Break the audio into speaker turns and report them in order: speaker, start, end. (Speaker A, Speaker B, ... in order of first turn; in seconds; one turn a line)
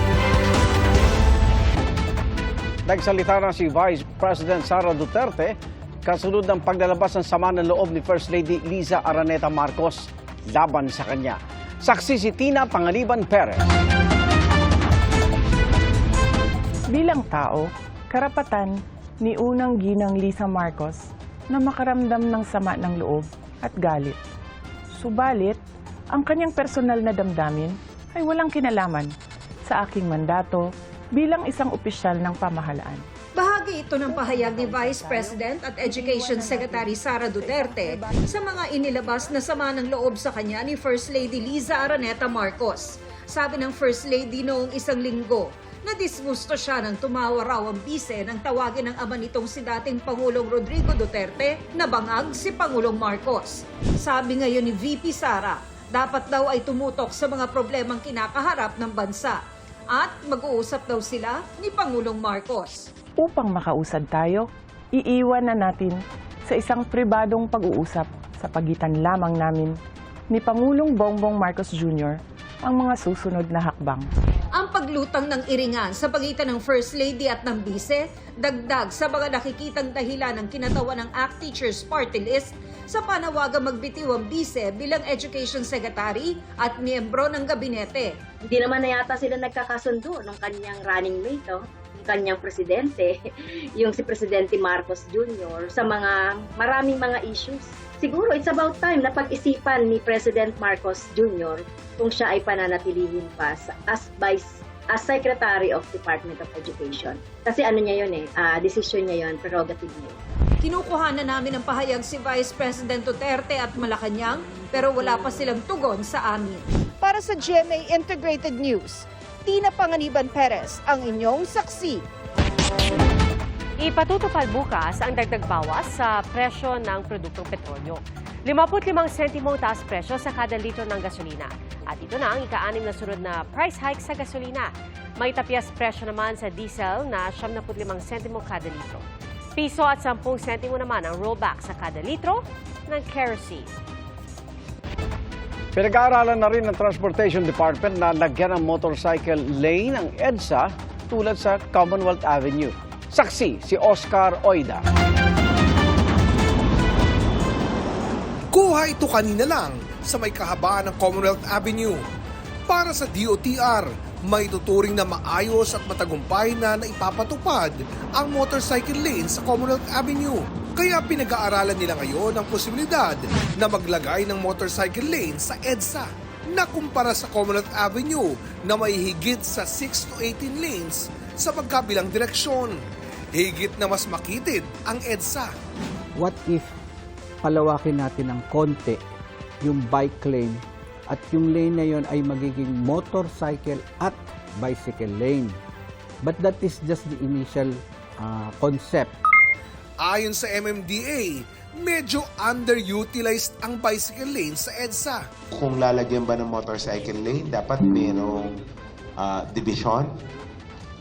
Speaker A: 2.9-13.8
Speaker B: 16.9-24.2
Speaker B: 24.9-25.6
Speaker B: 26.1-29.1
Speaker B: 29.7-33.0
Speaker C: 33.4-59.4
Speaker B: 34.1-38.1
Speaker C: 59.9-62.9
Speaker B: 63.2-69.7
Speaker B: 70.3-74.1
Speaker C: 74.5-88.1
Speaker D: 88.5-93.1
Speaker D: 93.8-110.1
Speaker C: 110.6-116.6
Speaker E: 117.0-122.0
Speaker F: 123.8-139.0
Speaker F: 139.6-143.7
Speaker A: 145.7-154.8
Speaker G: 158.5-162.0
Speaker G: 162.7-182.8
Speaker G: 183.3-185.5
Speaker H: 186.2-186.7
Speaker H: 187.4-189.0
Speaker H: 189.6-195.6
Speaker H: 196.2-199.1
Speaker G: 200.0-205.2
Speaker I: 205.5-208.6
Speaker I: 209.2-210.1